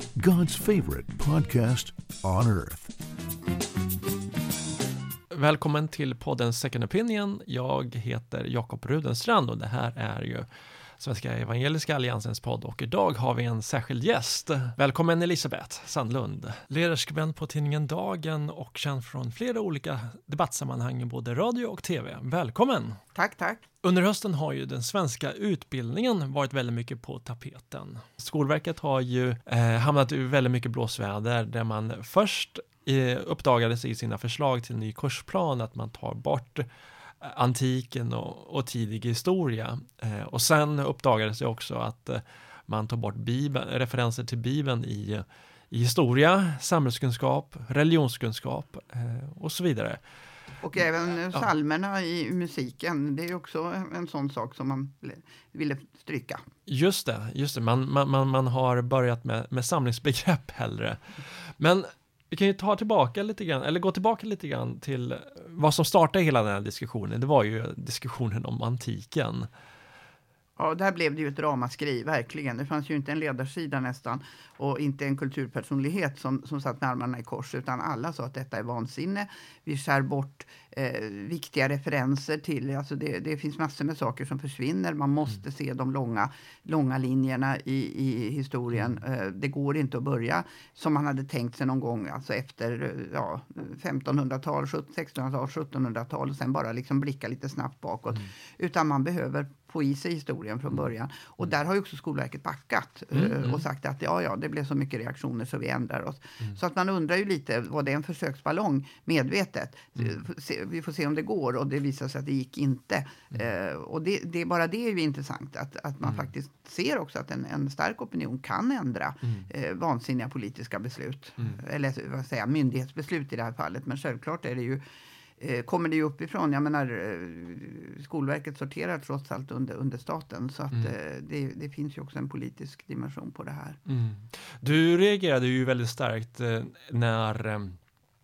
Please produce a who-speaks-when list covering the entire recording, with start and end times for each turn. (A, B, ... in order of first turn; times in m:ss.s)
0:00.2-0:02.9 A
0:05.3-0:10.5 B
0:11.0-0:23.0 B
0:23.1-0:23.6 C
0:23.8-0:36.6 B
0:37.2-0:50.0 B
0:50.6-0:56.4 C
0:56.7-1:09.5 B
1:10.6-2:04.8 C
1:28.7-1:29.0 B
1:43.1-1:43.6 B
2:05.4-2:13.8 C
2:13.8-2:17.8 B